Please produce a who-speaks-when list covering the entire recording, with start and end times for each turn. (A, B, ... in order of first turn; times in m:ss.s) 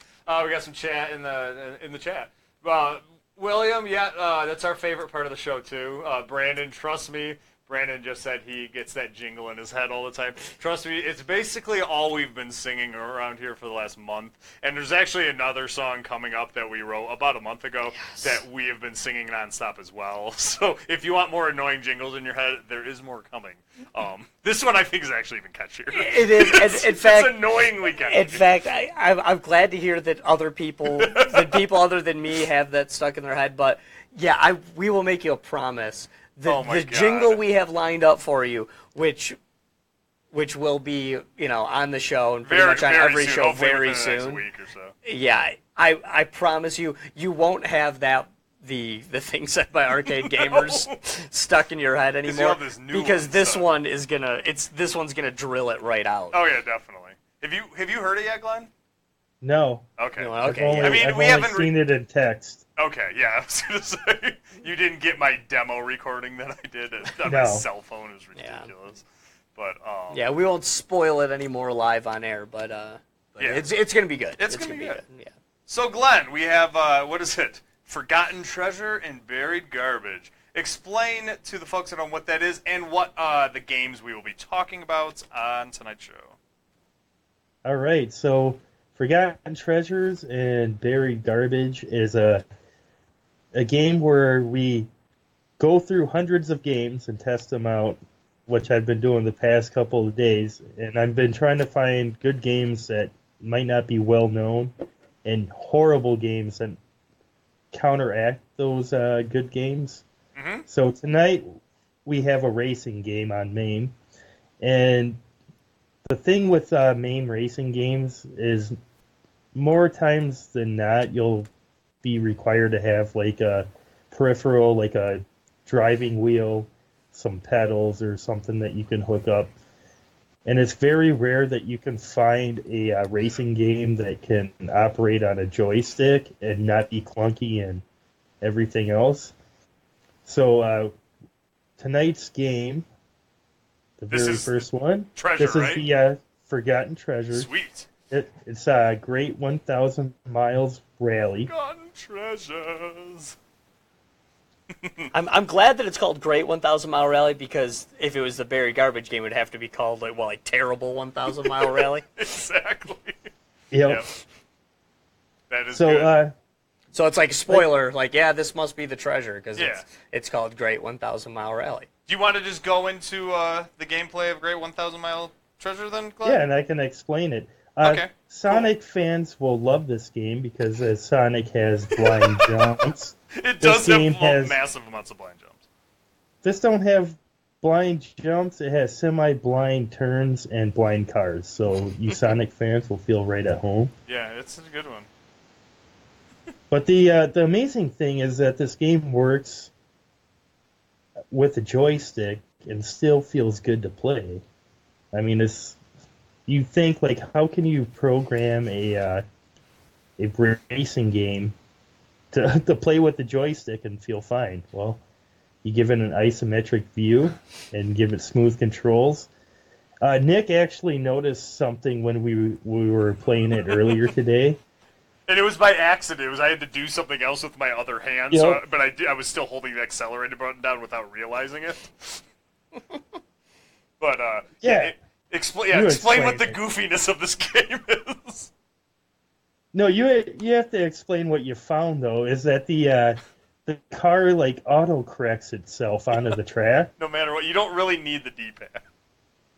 0:00.3-0:28.4 A
0:18.0-0:18.4 B
0:25.9-0:39.4 B
0:30.9-0:31.6 A
0:36.4-0:37.4 A
0:40.3-0:44.4 B
0:42.4-0:45.0 A
0:45.0-0:56.4 B
0:50.0-0:51.0 A
0:52.2-0:53.7 A
0:56.3-0:58.7 A
0:59.4-0:59.9 C
1:00.0-1:01.8 A
1:00.2-1:01.0 B
1:00.4-1:02.6 C
1:02.8-1:09.0 A
1:07.2-1:07.7 C
1:08.4-1:08.7 B
1:09.6-1:10.2 A
1:10.1-1:15.3 B
1:13.4-1:13.7 A
1:14.4-1:15.0 A
1:15.7-1:26.4 A
1:27.6-1:32.4 C
1:33.5-1:34.9 C
1:35.6-1:44.7 C
1:45.2-1:46.8 C
1:47.7-1:50.0 C
1:50.4-1:50.7 A
1:50.7-1:53.9 C
1:54.6-1:55.2 C
1:56.0-1:58.8 C
1:59.6-2:01.5 C
2:02.0-2:09.5 C
2:10.5-2:17.8 C
2:18.4-2:19.3 C
2:20.2-2:21.0 C
2:21.8-2:22.9 C
2:24.0-2:27.5 C
2:24.1-2:24.6 A
2:25.2-2:25.9 A
2:27.3-2:27.9 A
2:28.1-2:31.5 C
2:31.5-2:33.4 A
2:34.8-2:35.1 A
2:35.1-2:42.0 B
2:41.4-2:43.2 A
2:43.7-2:44.0 C
2:43.9-2:44.1 A
2:45.5-2:46.2 A
2:45.7-2:46.3 C
2:46.9-2:51.9 B
2:49.6-2:49.9 A
2:52.1-2:56.4 A
2:56.2-3:04.6 C
2:57.8-2:58.7 A
3:02.0-3:02.6 A
3:03.3-3:05.6 A
3:06.4-3:13.9 C
3:14.1-3:15.1 A
3:16.7-3:19.7 C
3:21.3-3:24.4 C
3:25.1-3:25.8 C
3:26.5-3:29.2 C
3:30.2-3:31.6 C
3:32.3-3:35.0 C
3:35.6-3:39.3 C
3:40.0-3:44.6 C
3:45.3-3:52.2 A
3:48.3-3:48.6 C
3:54.0-3:58.5 A
3:54.6-3:54.9 C
3:55.7-3:56.6 C
3:59.7-4:06.9 C
4:07.0-4:08.8 A